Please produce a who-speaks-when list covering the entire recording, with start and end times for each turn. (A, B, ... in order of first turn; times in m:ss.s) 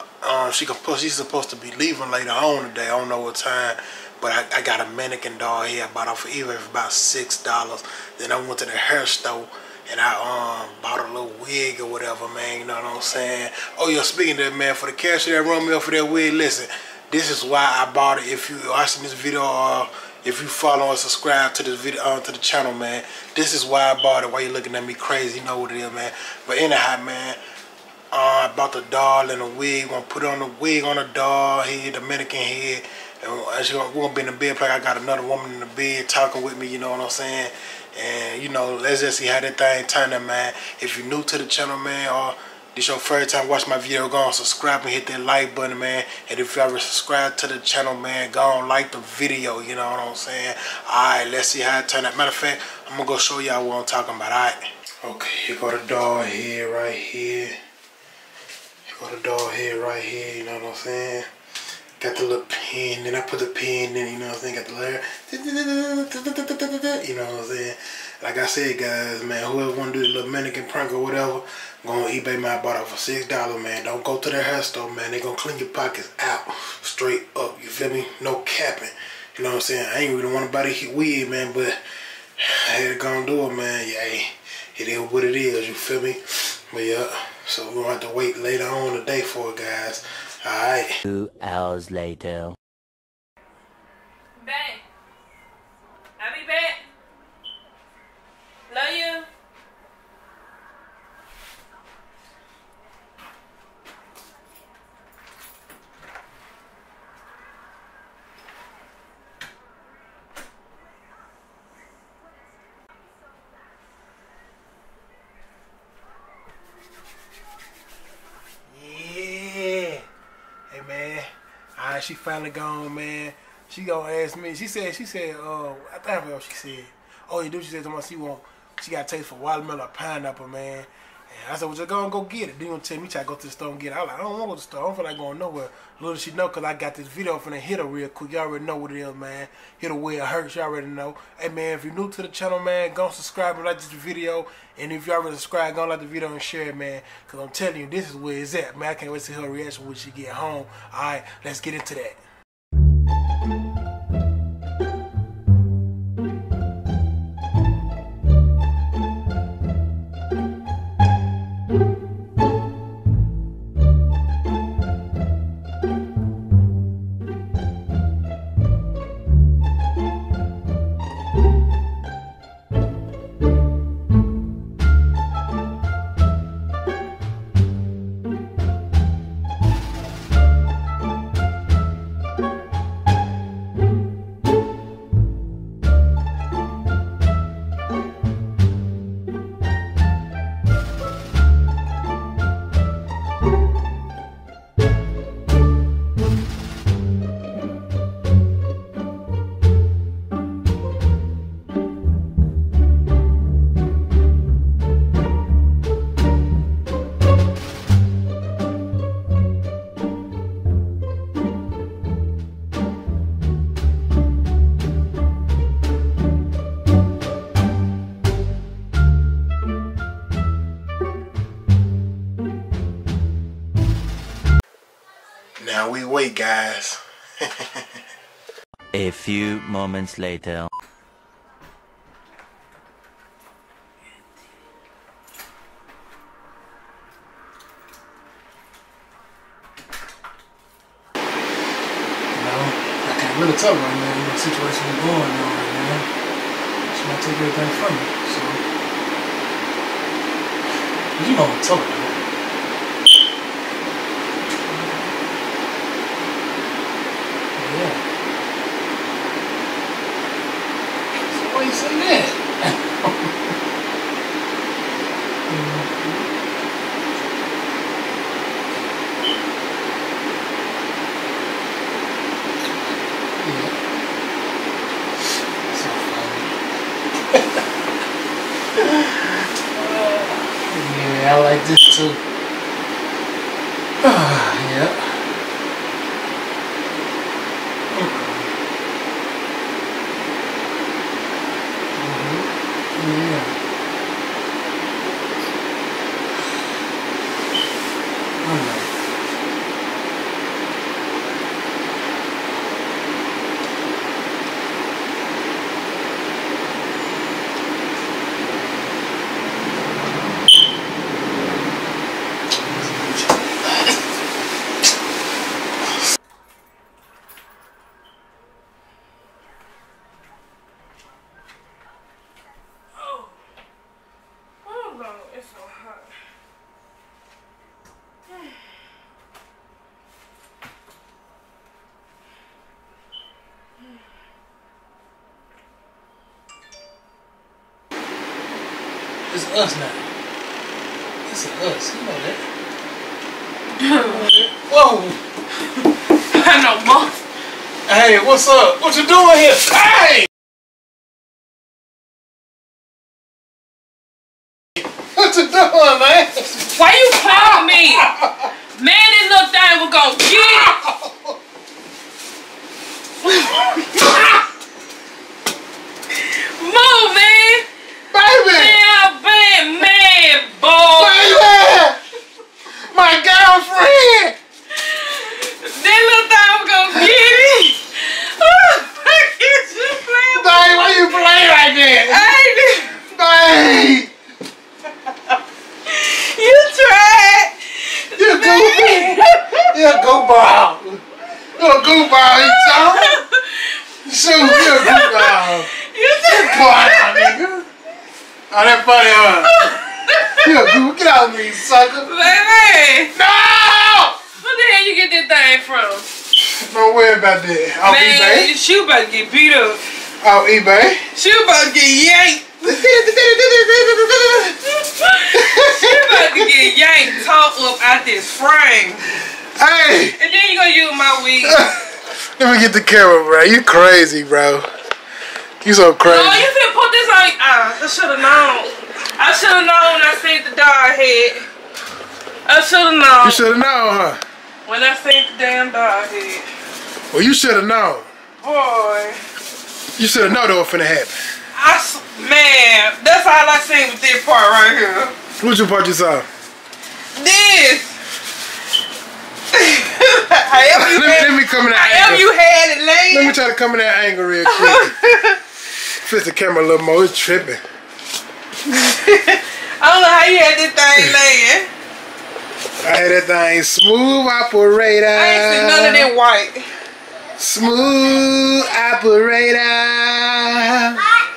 0:00.2-0:27.4 A
0:28.1-0:57.6 A
0:58.9-1:01.3 A
1:02.0-1:21.8 A
1:22.4-1:31.0 A
1:31.0-1:32.6 B
1:34.4-1:34.8 C
1:36.2-1:36.8 C
1:38.7-1:39.3 C
1:58.7-2:00.0 A
2:00.7-2:32.2 A
3:45.6-3:48.0 A
3:48.9-3:50.7 B
4:02.3-4:06.1 A
4:06.9-4:08.6 A
4:11.2-4:12.2 A
4:14.7-4:15.1 A
4:17.6-4:18.0 A
4:21.3-4:23.2 A
4:25.5-4:26.3 A
4:33.4-4:33.7 A
4:35.7-4:36.5 A
4:39.8-4:40.4 C
4:40.7-4:42.2 A
4:44.0-4:45.2 A
4:47.9-4:48.5 A
4:52.0-4:53.5 A
4:58.4-4:58.9 A
5:12.8-5:13.2 A
5:23.0-5:23.3 C
5:24.6-5:26.1 C
5:39.3-5:40.0 A
5:41.3-5:42.4 A
5:43.8-5:44.2 C
5:44.0-5:45.2 A
5:46.3-5:47.2 C
5:47.9-5:50.3 A
5:54.9-5:56.7 A
5:56.6-5:58.1 C
5:57.2-5:58.5 A
5:58.8-6:00.8 C
6:00.3-6:01.3 A
6:03.2-6:04.3 C
6:06.2-6:07.6 C
6:08.1-6:08.8 A
6:08.4-6:11.6 C
6:10.9-6:12.0 A
6:12.9-6:14.4 A
6:14.8-6:21.2 C
6:17.0-6:17.3 A
6:20.3-6:22.4 A
6:22.1-6:23.0 C
6:22.9-6:24.1 A
6:25.9-6:30.0 C
6:28.2-6:31.0 A
6:31.6-6:33.2 A
6:32.3-6:33.8 C
6:34.0-6:35.7 A
6:34.4-6:37.4 C
6:36.2-6:37.6 A
6:38.5-6:39.5 A
6:39.2-6:40.7 C
6:40.4-6:42.1 A
6:42.0-6:43.1 C
6:43.2-6:44.2 A
6:44.4-6:46.1 C
6:46.4-6:48.5 A
6:47.9-6:49.8 C
6:50.2-6:51.0 A
6:51.2-6:52.5 C
6:52.6-6:54.6 A
6:54.4-6:59.1 C
6:55.3-6:56.6 A
6:59.6-7:00.2 A
7:00.2-7:01.6 C
7:01.4-7:01.9 A
7:02.4-7:04.7 A
7:05.6-7:06.5 A
7:06.0-7:11.5 C
7:12.5-7:13.4 C
7:13.2-7:14.2 A
7:14.7-7:16.4 C
7:17.1-7:18.1 A
7:18.4-7:19.2 C
7:20.0-7:21.2 A
7:21.6-7:25.2 C
7:25.4-7:26.3 A
7:27.2-7:27.9 C
7:29.5-7:33.4 C
7:30.7-7:32.3 A
7:33.1-7:34.9 A
7:34.5-7:35.4 C
7:36.0-7:37.6 A
7:38.6-7:41.7 C
7:42.8-7:46.1 A
7:45.2-7:46.7 C
7:47.4-7:51.1 A